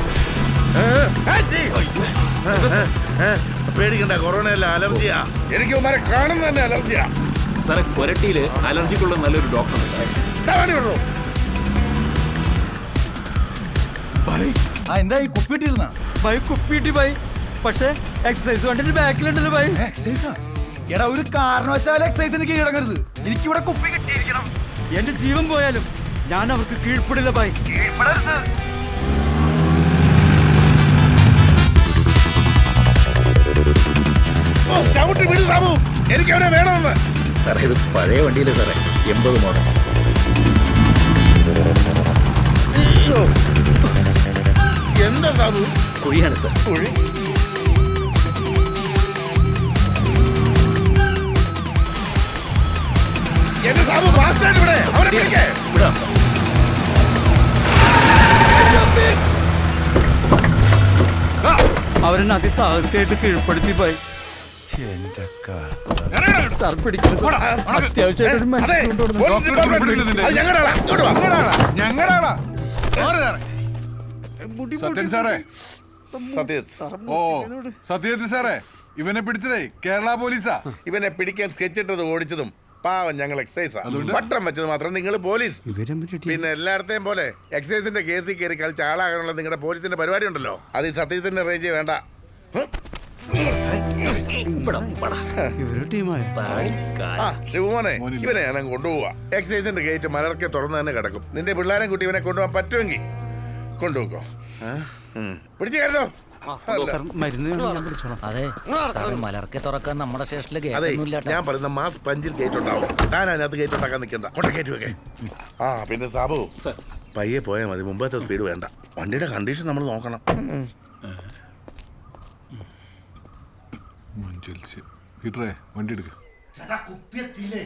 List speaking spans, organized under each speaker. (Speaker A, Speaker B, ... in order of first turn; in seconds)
Speaker A: 0.8-1.8, 2.5-7.1, 10.4-11.0, 34.7-37.0, 42.8-43.3, 45.0-45.7, 46.7-47.0, 53.6-55.6, 67.4-71.3, 76.2-76.8, 80.8-85.6, 86.3-92.0, 96.5-103.0, 103.8-107.0, 110.7-115.0, 115.6-116.5, 117.2-120.7
Speaker B: 7.6-10.1, 37.4-39.7, 46.0-46.6, 54.9-56.1, 94.0-95.2, 96.4-97.3, 106.6-106.9
Speaker C: 14.2-14.7, 16.2-19.8, 25.0-27.6, 62.0-64.0, 66.5-69.2, 69.8-70.1, 74.4-75.4, 76.1-77.8, 85.7-86.5, 94.5-95.0, 95.6-96.4, 106.8-108.2
Speaker D: 14.9-16.0, 19.8-24.5, 64.7-66.3
Speaker E: 66.1-66.6, 67.2-68.0, 69.2-70.5, 71.0-72.4, 73.0-73.4, 74.7-75.4, 77.1-80.7, 83.8-84.3, 98.0-98.4, 124.2-126.2
Speaker F: 108.3-111.4